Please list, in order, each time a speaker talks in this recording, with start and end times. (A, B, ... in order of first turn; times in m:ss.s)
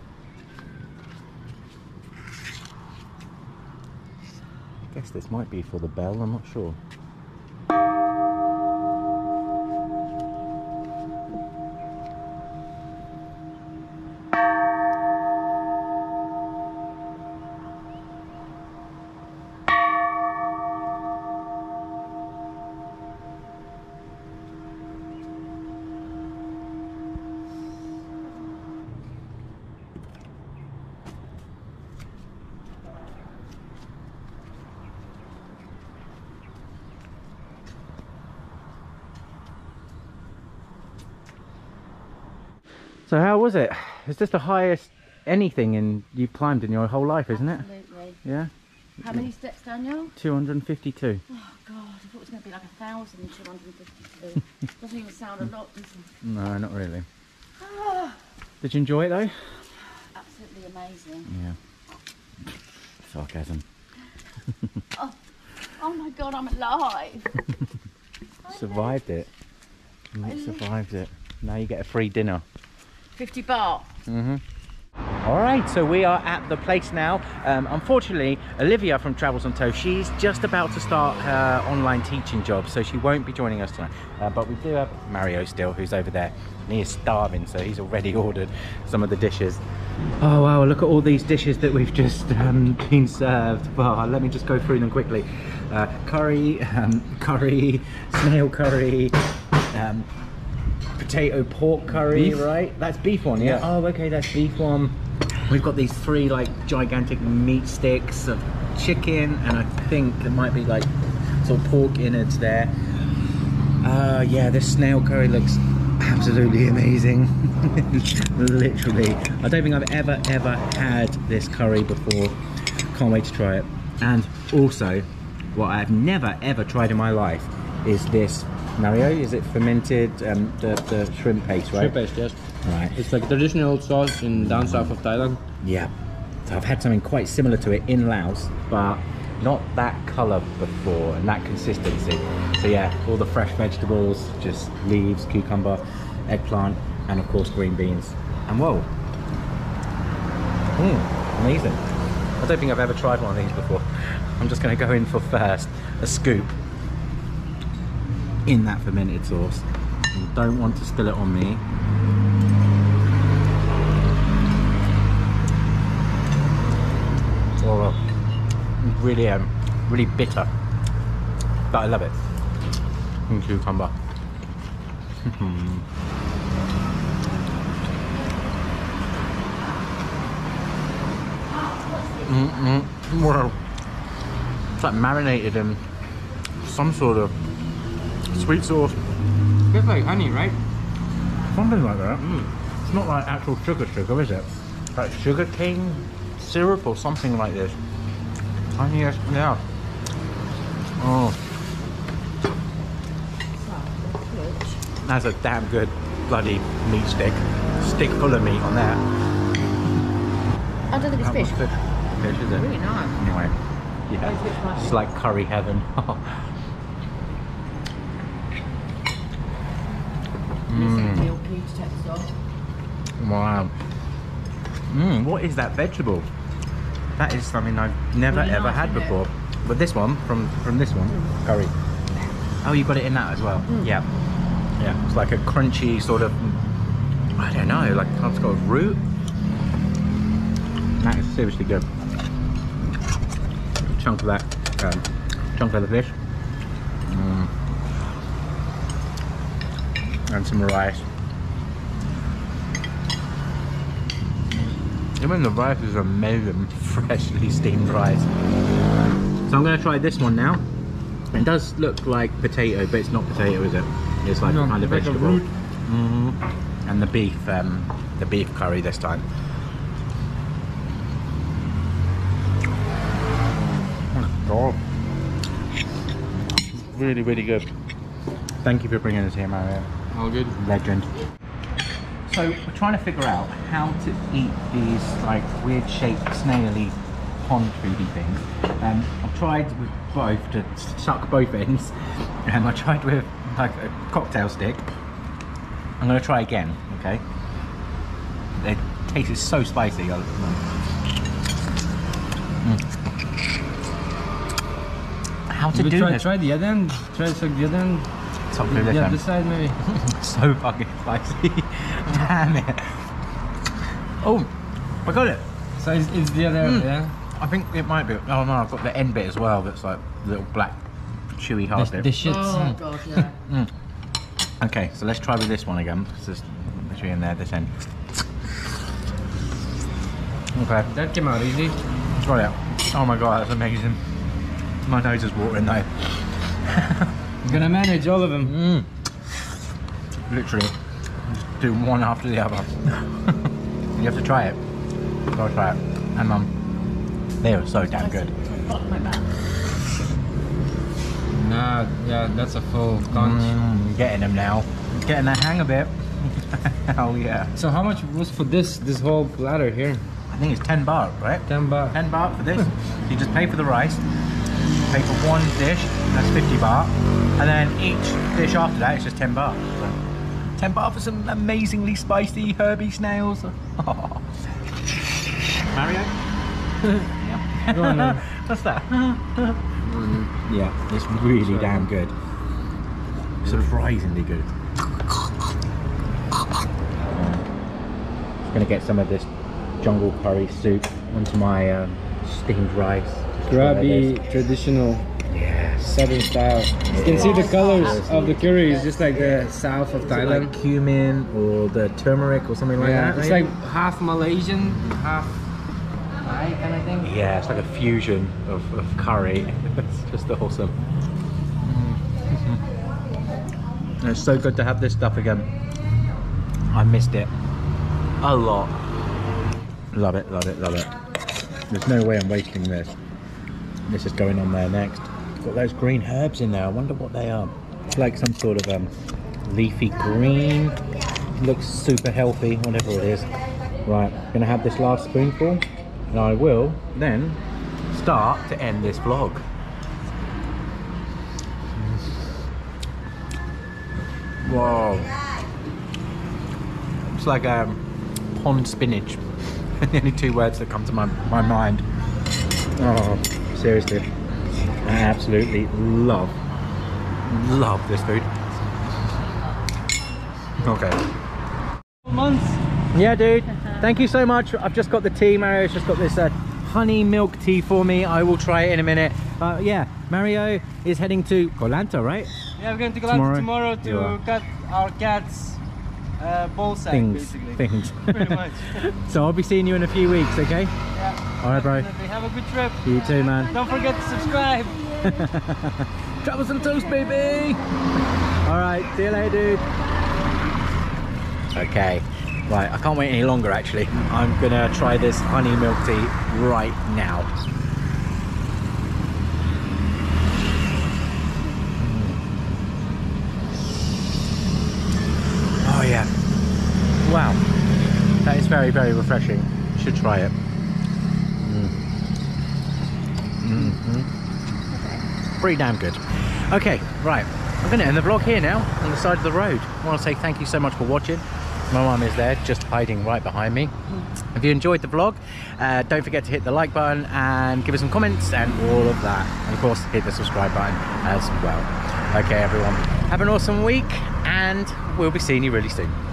0:04.9-0:06.8 A
0:43.1-0:47.6 A
0:47.3-0:48.2 B
0:48.2-0:48.5 A
0:49.0-0:50.1 B
0:50.2-0:51.2 A
0:51.3-0:56.1 B
0:56.2-0:57.0 A
0:57.6-0:58.2 B
0:58.6-0:59.3 A
1:00.1-1:01.3 B
1:01.3-1:01.6 A
1:03.0-1:03.6 A
1:05.8-1:07.4 B
1:08.4-1:09.0 B
1:08.5-1:09.3 A
1:10.1-1:12.4 A
1:10.2-1:10.6 B
1:13.2-1:13.9 B
1:14.1-1:14.4 A
1:15.2-1:29.6 A
1:30.2-1:39.2 A
1:39.7-1:40.1 A
1:41.0-1:45.0 A
1:42.0-1:42.5 C
1:43.4-1:43.7 C
1:45.5-1:50.9 A
1:51.4-1:52.8 A
1:53.8-2:02.4 A
2:02.9-2:12.0 A
2:11.7-2:12.4 C
2:12.6-2:13.0 A
2:12.9-2:15.4 C
2:14.3-2:14.9 A
2:15.6-2:15.9 A
2:16.4-2:28.9 A
2:30.8-2:31.8 A
2:32.4-2:36.5 A
2:38.4-2:41.6 A
2:47.6-2:48.0 A
2:48.8-2:50.5 A
2:51.7-2:52.2 A
2:53.3-2:53.9 A
2:55.2-2:55.8 A
3:02.2-3:03.6 A
3:04.8-3:05.8 A
3:06.6-3:07.4 A
3:08.3-3:09.0 A
3:09.7-3:10.6 C
3:11.5-3:17.8 A
3:18.8-3:19.6 A
3:21.0-3:21.4 A
3:23.6-3:24.9 B
3:25.0-3:29.0 A
3:30.9-3:31.6 B
3:31.2-3:33.5 A
3:32.5-3:33.2 B
3:34.1-3:36.5 A
3:34.2-3:35.0 B
3:40.7-3:41.3 A
3:40.7-3:42.3 B
3:43.2-3:43.7 A
3:44.9-3:46.3 A
3:47.1-3:51.7 A
3:48.3-3:49.2 B
3:52.6-3:54.1 A
3:54.8-3:56.6 A
3:57.4-3:59.0 A
4:01.0-4:01.9 A
4:03.8-4:06.2 A
4:07.1-4:07.5 A
4:10.3-4:11.0 A
4:15.2-4:18.3 A
4:19.5-4:20.6 A
4:21.3-4:29.2 A
4:24.4-4:25.5 C
4:34.1-4:34.8 A
4:36.7-4:37.7 A
4:38.6-4:39.9 A
4:40.1-4:40.6 C
4:40.5-4:41.1 A
4:42.3-4:51.9 A
4:52.4-4:54.9 A
4:56.0-4:57.2 A
4:58.6-5:00.6 A
5:05.5-5:06.3 A
5:05.7-5:08.1 C
5:08.5-5:09.2 A
5:08.7-5:09.8 C
5:09.8-5:13.0 A
5:14.2-5:14.5 A
5:15.0-5:15.5 A
5:15.8-5:17.1 C
5:16.6-5:20.8 A
5:21.3-5:22.2 A
5:21.7-5:22.8 C
5:22.2-5:23.3 B
5:23.3-5:23.7 A
5:24.6-5:28.7 A
5:30.5-5:30.9 A
5:30.8-5:31.8 C
5:32.1-5:34.0 A
5:34.8-5:36.0 A
5:36.6-5:37.1 A
5:37.4-5:38.5 C
5:38.4-5:38.9 A
5:40.3-5:40.7 A
5:41.2-5:44.6 A
5:45.3-5:46.5 A
5:47.4-5:48.3 A
5:47.8-5:49.3 B
5:51.3-5:53.6 C
5:53.1-5:57.5 A
5:57.6-6:00.0 C
6:00.3-6:04.0 A
6:01.5-6:02.0 C
6:04.8-6:10.0 A
6:10.6-6:14.4 A
6:15.2-6:16.1 A
6:16.8-6:19.8 A
6:17.7-6:18.2 C
6:19.8-6:20.3 C
6:20.4-6:22.1 A
6:21.4-6:21.9 C
6:23.4-6:24.5 A
6:27.0-6:27.4 A
6:28.4-6:29.3 A
6:29.8-6:34.2 A
6:33.5-6:35.0 C
6:35.3-6:36.1 A
6:35.8-6:40.5 C
6:36.9-6:38.6 A
6:37.1-6:39.1 B
6:39.1-6:39.5 A
6:40.0-6:43.5 A
6:42.8-6:45.3 C
6:46.2-6:47.1 C
6:47.0-6:50.8 A
6:51.6-6:52.6 A
6:54.0-6:55.5 A
6:56.7-6:57.3 A
6:58.2-6:58.8 A
6:59.9-7:00.9 A
7:01.7-7:02.9 A
7:03.9-7:08.9 A
7:09.4-7:10.8 A
7:11.4-7:13.3 A
7:13.8-7:17.4 A
7:17.9-7:19.4 A
7:21.8-7:22.0 A
7:24.4-7:25.1 A
7:27.0-7:27.8 A
7:28.3-7:29.2 A
7:29.8-7:31.8 A
7:32.8-7:34.1 A
7:34.8-7:36.4 A
7:37.2-7:38.3 A
7:40.6-7:41.0 A
7:42.0-7:42.6 C
7:42.9-7:52.3 A
7:52.6-7:55.6 C
7:53.0-7:54.2 A
7:56.2-7:59.0 C
7:56.9-8:00.7 A
8:00.9-8:05.0 C
8:01.4-8:01.9 A
8:02.8-8:03.6 A
8:02.9-8:05.3 B
8:05.0-8:07.6 A
8:06.6-8:07.6 B
8:08.4-8:09.6 A
8:11.5-8:17.3 A
8:21.8-8:22.2 A
8:25.6-8:26.1 A
8:27.0-8:27.4 A
8:28.2-8:30.3 A
8:31.4-8:31.7 A
8:33.4-8:34.1 A
8:34.7-8:35.0 B
8:35.4-8:43.7 A
8:44.3-8:56.0 A